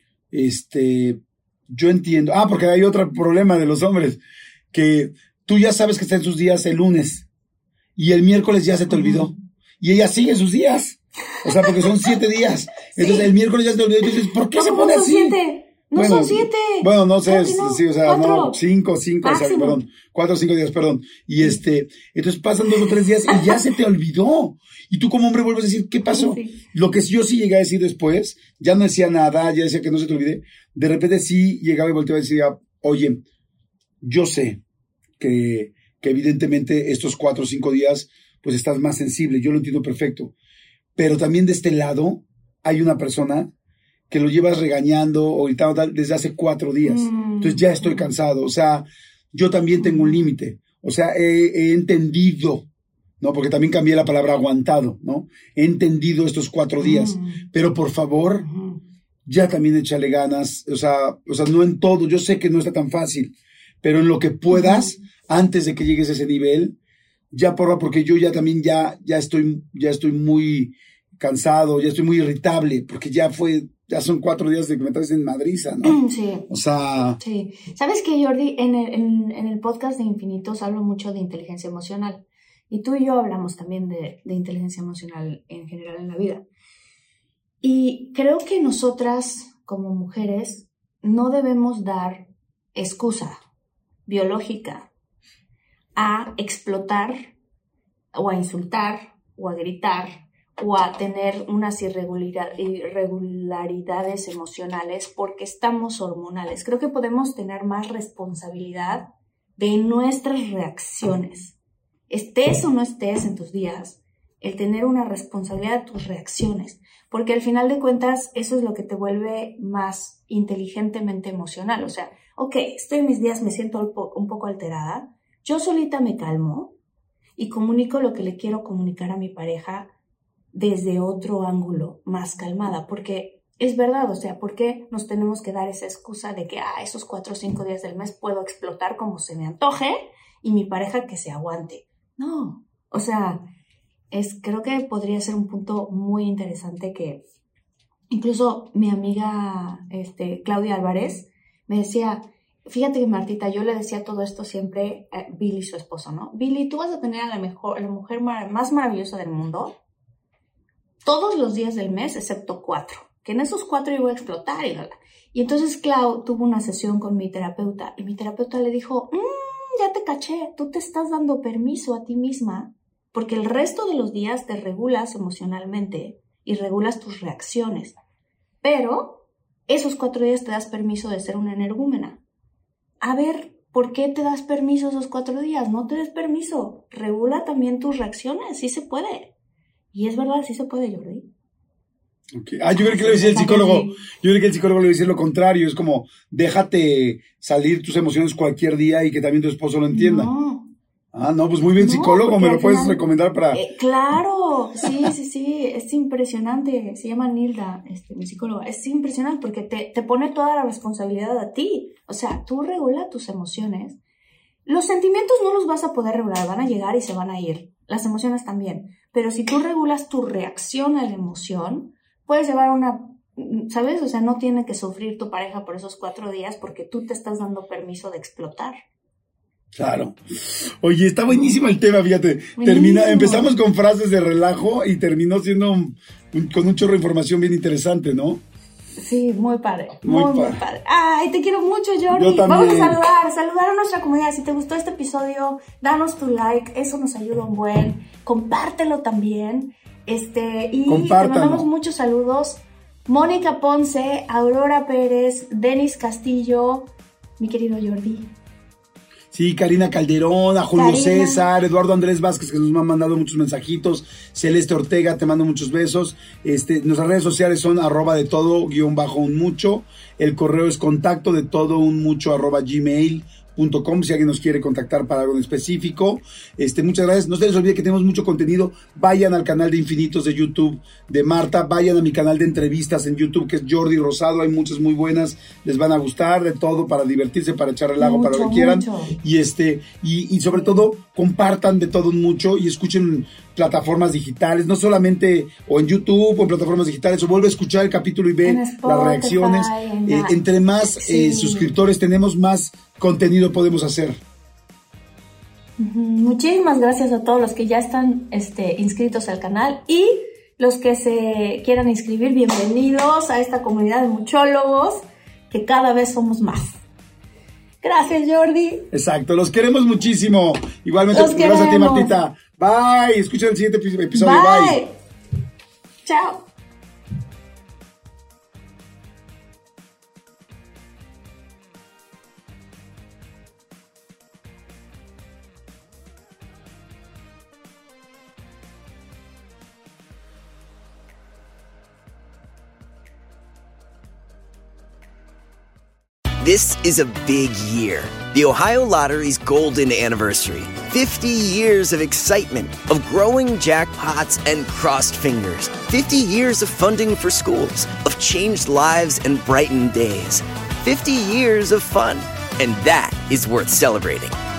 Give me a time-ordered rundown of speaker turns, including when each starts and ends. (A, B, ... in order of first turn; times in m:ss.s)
0:00.3-0:04.2 A
0:04.7-0:07.2 A
0:08.0-0:15.4 A
0:08.9-0:09.3 B
0:11.4-0:12.1 B
0:12.9-0:13.3 B
0:14.5-0:18.6 B
0:15.9-0:33.2 A
0:19.2-0:19.8 B
0:23.3-0:23.7 B
0:26.1-0:26.6 B
0:34.0-0:34.6 A
0:35.2-0:40.3 A
0:41.0-0:43.5 A
0:44.1-0:52.6 A
0:46.8-0:48.1 B
0:49.8-0:50.3 B
0:53.2-0:58.5 A
0:56.8-0:57.4 B
0:58.4-0:58.8 B
0:59.2-1:06.8 A
1:04.5-1:04.9 B
1:07.3-1:17.2 A
1:15.8-1:16.5 B
1:17.2-1:26.4 B
1:27.6-1:33.4 B
1:34.0-1:34.9 B
1:36.0-1:37.3 B
1:38.1-1:51.6 B
1:52.1-2:06.7 B
2:07.4-2:09.9 B
2:10.5-2:23.5 B
2:24.1-2:27.2 B
2:28.1-2:39.8 B
2:41.0-2:58.0 B
2:58.6-3:02.2 B
3:03.0-3:09.3 B
3:09.9-3:11.3 B
3:12.3-3:20.3 A
3:12.7-3:14.0 B
3:19.9-3:20.7 B
3:21.1-3:23.6 A
3:21.8-3:34.0 B
3:34.6-3:48.8 B
3:49.7-3:58.4 A
3:52.6-3:53.5 B
3:59.0-4:18.3 B
4:00.0-4:00.6 A
4:02.1-4:03.0 A
4:10.9-4:11.7 A
4:19.3-5:04.2 A
4:20.7-4:21.5 B
4:48.0-4:49.2 B
4:58.4-5:00.4 B
5:01.0-5:01.7 B
5:05.8-5:16.8 B
5:17.8-5:18.9 B
5:18.9-5:24.8 A
5:21.1-5:22.1 B
5:24.1-5:25.0 B
5:26.0-5:26.4 B
5:46.4-6:04.4 C